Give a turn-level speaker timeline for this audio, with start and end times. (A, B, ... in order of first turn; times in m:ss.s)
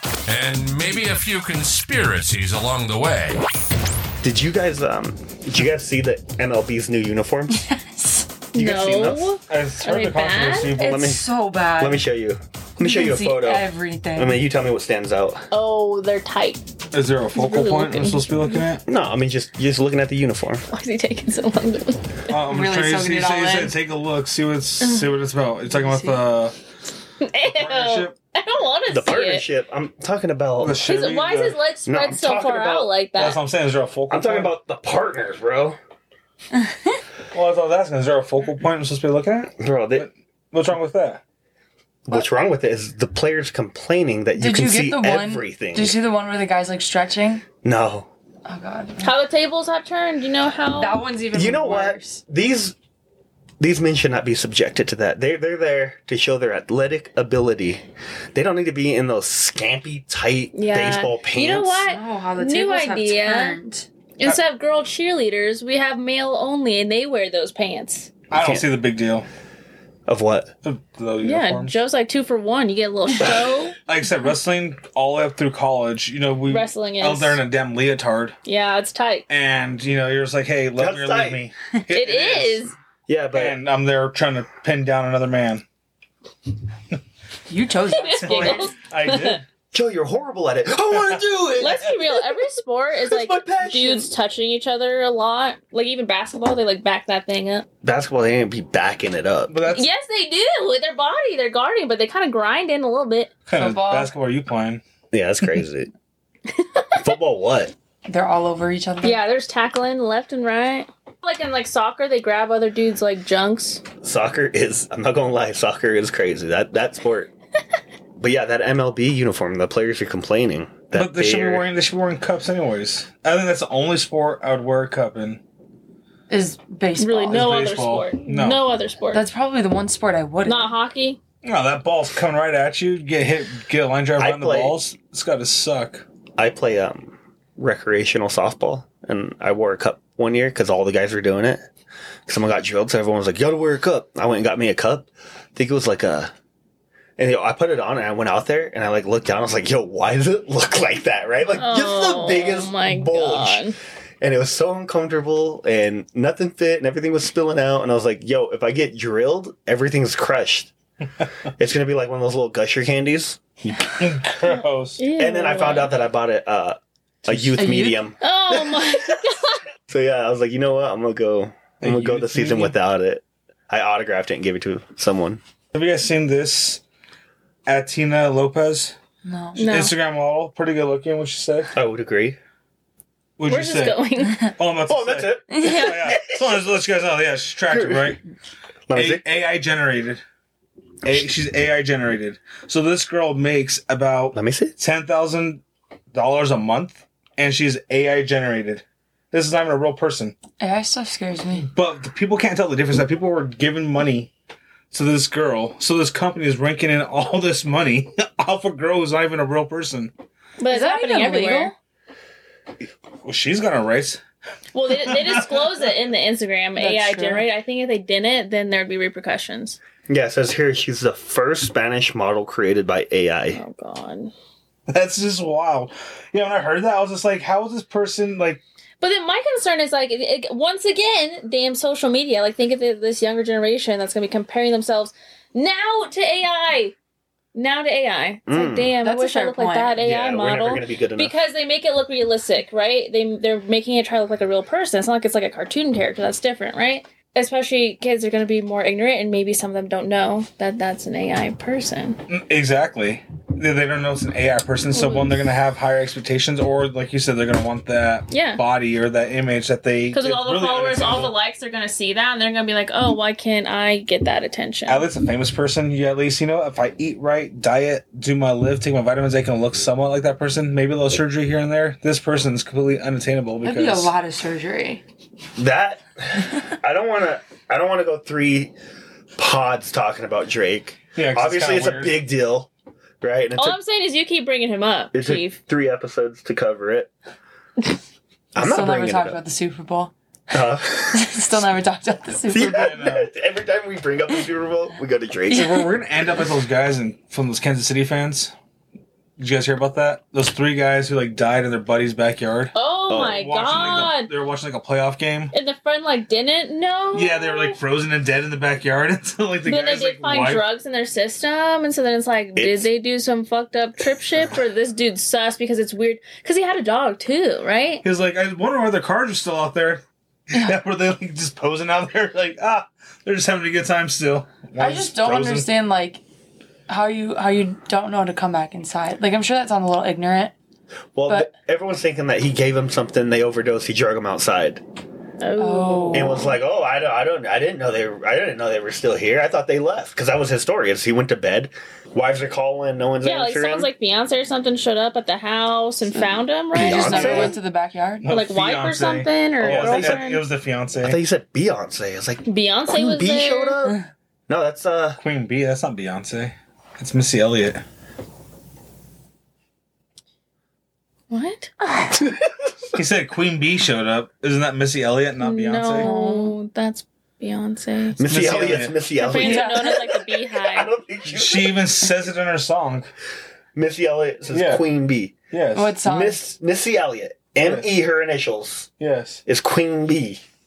0:00.3-0:03.4 A
0:04.2-0:07.6 B
0:07.6-0:08.3 C
0:08.5-0:09.3 B
0:08.6-0:10.7 D
0:09.5-0:11.1 E
0:10.7-0:12.1 C
0:10.8-0:15.4 B
0:12.8-0:14.5 C
0:15.5-0:16.6 D
0:16.9-0:18.8 E
0:17.4-0:18.4 D
0:18.9-0:20.6 B
0:20.7-0:22.3 D
0:22.3-0:26.6 E
0:22.3-0:23.8 C
0:24.8-0:25.1 D
0:25.7-0:26.2 C
0:27.2-0:29.5 D
0:27.4-0:28.2 E
0:28.9-0:30.8 B
0:30.6-0:31.6 E
0:30.8-0:33.4 D
0:31.8-0:32.9 B
0:33.2-0:34.6 E
0:34.1-0:35.8 B
0:37.3-0:41.2 E
0:39.6-0:40.1 B
0:42.1-0:46.0 B
0:44.4-0:47.4 C
0:47.6-0:48.1 B
0:48.5-0:49.2 C
0:49.0-0:51.0 D
0:50.8-0:52.2 C
0:51.3-0:52.8 B
0:53.6-0:57.8 B
0:58.3-1:01.8 B
1:00.5-1:03.6 D
1:01.9-1:03.9 C
1:04.2-1:08.1 D
1:08.3-1:09.3 E
1:08.3-1:08.7 B
1:10.1-1:10.5 B
1:10.6-1:11.8 E
1:11.2-1:13.8 D
1:13.9-1:18.4 E
1:16.5-1:17.4 D
1:18.4-1:19.3 D
1:19.3-1:22.7 E
1:20.8-1:21.4 B
1:21.9-1:22.7 D
1:23.1-1:23.6 B
1:23.3-1:25.6 E
1:27.5-1:28.7 C
1:27.9-1:29.4 D
1:28.2-1:29.4 E
1:29.7-1:32.0 B
1:30.9-1:31.2 E
1:31.6-1:37.7 D
1:33.0-1:34.1 B
1:37.8-1:39.6 B
1:39.5-1:39.9 E
1:39.7-1:43.3 D
1:43.5-1:44.8 E
1:43.5-1:44.1 C
1:45.1-1:45.9 B
1:46.5-1:47.1 D
1:47.0-1:47.7 B
1:48.1-1:49.2 C
1:49.0-1:53.8 D
1:54.0-1:57.3 B
1:58.2-2:01.7 B
2:00.9-2:05.4 E
2:06.3-2:07.5 C
2:07.0-2:09.2 D
2:07.3-2:08.7 E
2:09.1-2:10.7 C
2:10.4-2:11.2 D
2:11.4-2:16.0 E
2:14.2-2:14.8 B
2:16.4-2:21.7 B
2:22.3-2:26.3 B
2:27.2-2:40.7 B
2:31.6-2:33.8 D
2:41.6-2:44.0 B
2:44.0-2:45.0 E
2:45.0-2:45.9 D
2:45.2-2:49.2 B
2:47.3-2:47.6 E
2:47.6-2:48.0 C
2:48.2-2:49.6 D
2:49.9-2:55.4 B
2:51.8-2:52.8 E
2:55.7-2:56.8 E
2:57.7-2:59.0 E
2:59.2-2:59.7 C
2:59.6-3:01.7 E
2:59.6-2:59.9 D
3:01.8-3:02.4 B
3:03.4-3:08.2 E
3:03.5-3:04.5 D
3:04.9-3:06.5 B
3:05.5-3:06.1 C
3:07.7-3:08.1 B
3:08.9-3:09.2 B
3:08.9-3:10.2 E
3:11.0-3:15.6 E
3:14.3-3:14.8 B
3:16.1-3:20.4 E
3:20.6-3:21.7 C
3:21.7-3:24.3 E
3:24.9-3:30.1 E
3:30.6-3:31.7 D
3:30.7-3:31.7 C
3:33.2-3:34.2 E
3:34.7-3:39.8 D
3:34.9-3:35.6 E
3:36.8-3:37.5 C
3:40.1-3:43.6 B
3:43.5-3:44.3 D
3:44.9-3:48.6 E
3:49.0-3:56.9 D
3:57.5-4:12.2 D
3:58.5-3:58.9 B
3:59.0-3:59.9 C
4:00.0-4:01.3 B
4:12.3-4:21.3 E
4:14.9-4:15.4 D
4:18.3-4:18.6 D
4:20.1-4:25.1 D
4:24.9-4:34.1 E
4:33.6-4:35.0 C
4:35.6-4:38.7 B
4:39.4-4:42.7 B
4:41.2-4:42.2 E
4:43.2-4:43.8 B
4:43.6-4:45.6 D
4:45.1-4:47.1 B
4:48.6-4:49.4 B
4:48.6-4:50.6 C
4:50.5-4:51.3 B
4:51.1-4:53.0 C
4:52.5-4:55.8 B
4:52.6-4:53.3 E
4:55.5-4:58.5 E
4:59.4-5:02.7 E
5:02.7-5:04.3 D
5:03.1-5:03.5 B
5:03.3-5:05.5 E
5:05.5-5:07.8 D
5:07.1-5:10.6 E
5:09.7-5:18.0 D
5:12.6-5:12.9 B
5:18.0-5:25.7 E
5:24.8-5:26.2 C
5:26.9-5:30.5 C
5:31.2-5:34.8 B
5:35.4-5:36.6 D
5:35.6-5:36.5 C
5:36.1-5:43.9 B
5:43.2-5:47.6 D
5:46.2-5:48.3 C
5:46.7-5:47.6 B
5:48.2-5:51.2 E
5:48.3-5:50.4 D
5:49.6-5:50.3 B
5:51.0-5:55.2 B
5:52.5-5:53.8 D
5:55.2-5:57.8 E
6:01.3-6:01.8 D
6:02.2-6:02.5 B
6:03.0-6:06.1 E
6:05.4-6:08.2 D
6:06.0-6:06.5 C
6:08.2-6:11.8 B
6:08.2-6:09.0 E
6:09.2-6:10.9 D
6:09.3-6:10.1 C
6:11.3-6:13.1 E
6:13.8-6:15.4 B
6:14.5-6:14.8 E
6:15.5-6:16.0 E
6:15.8-6:16.4 C
6:16.0-6:18.9 B
6:17.6-6:17.9 E
6:19.0-6:19.4 E
6:19.4-6:20.4 B